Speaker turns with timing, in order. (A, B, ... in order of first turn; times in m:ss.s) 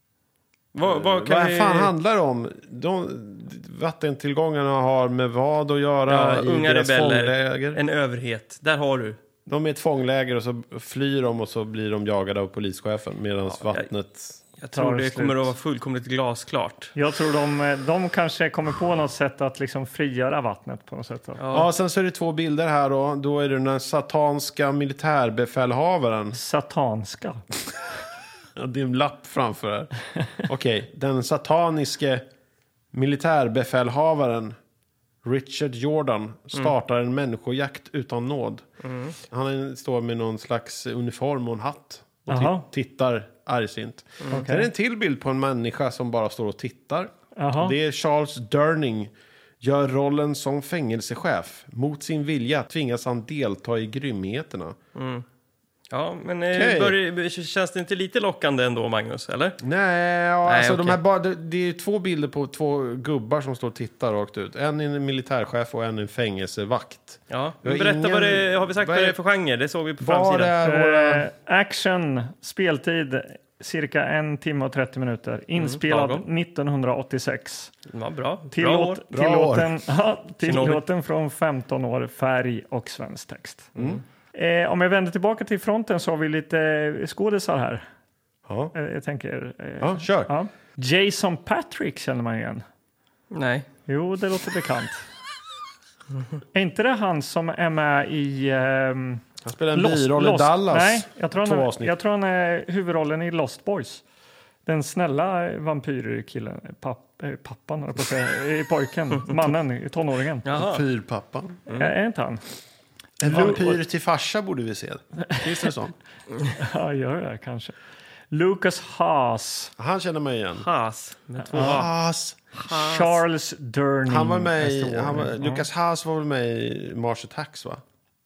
0:00.7-0:01.9 A
0:00.8-0:07.8 B
0:06.1-0:09.2 A
0:09.5-0:14.4 B
0:13.6-0:13.9 A
0:14.6-0:16.9 A
0:14.7-0:15.5 C
0:17.0-0:21.4 C
0:21.4-0:21.7 A
0:21.5-0:26.4 B
0:26.3-0:27.4 C
0:28.6-0:29.9 B
0:30.4-0:32.2 B
0:32.9-0:34.6 B
0:35.2-0:38.6 B
0:38.8-0:39.2 A
0:39.2-0:54.8 B
0:42.3-0:42.7 C
0:44.3-0:44.7 C
0:47.4-0:47.8 C
0:55.0-0:55.2 A
0:55.9-0:59.6 A
0:56.5-0:57.0 B
0:59.6-1:09.2 B
1:00.4-1:01.0 A
1:07.3-1:10.5 A
1:10.0-1:11.3 B
1:10.6-1:17.7 C
1:15.6-1:16.2 A
1:17.9-1:19.0 A
1:18.5-1:23.7 C
1:19.1-1:19.8 B
1:20.4-1:20.8 A
1:24.3-1:27.8 C
1:28.5-1:28.7 B
1:28.7-1:32.6 C
1:29.8-1:30.3 B
1:33.3-1:33.7 A
1:33.9-1:35.0 C
1:36.5-1:39.2 C
1:39.4-1:41.9 B
1:39.7-1:44.0 C
1:44.7-1:50.4 C
1:50.4-1:50.8 A
1:50.5-1:51.6 B
1:51.8-1:52.4 C
1:53.2-1:56.0 B
1:53.3-1:53.8 C
1:56.6-1:57.7 C
1:58.3-1:59.7 C
1:59.8-2:00.7 B
2:00.6-2:01.9 A
2:01.5-2:01.8 C
2:01.5-2:02.4 B
2:02.5-2:03.2 A
2:02.7-2:05.6 C
2:04.1-2:07.8 B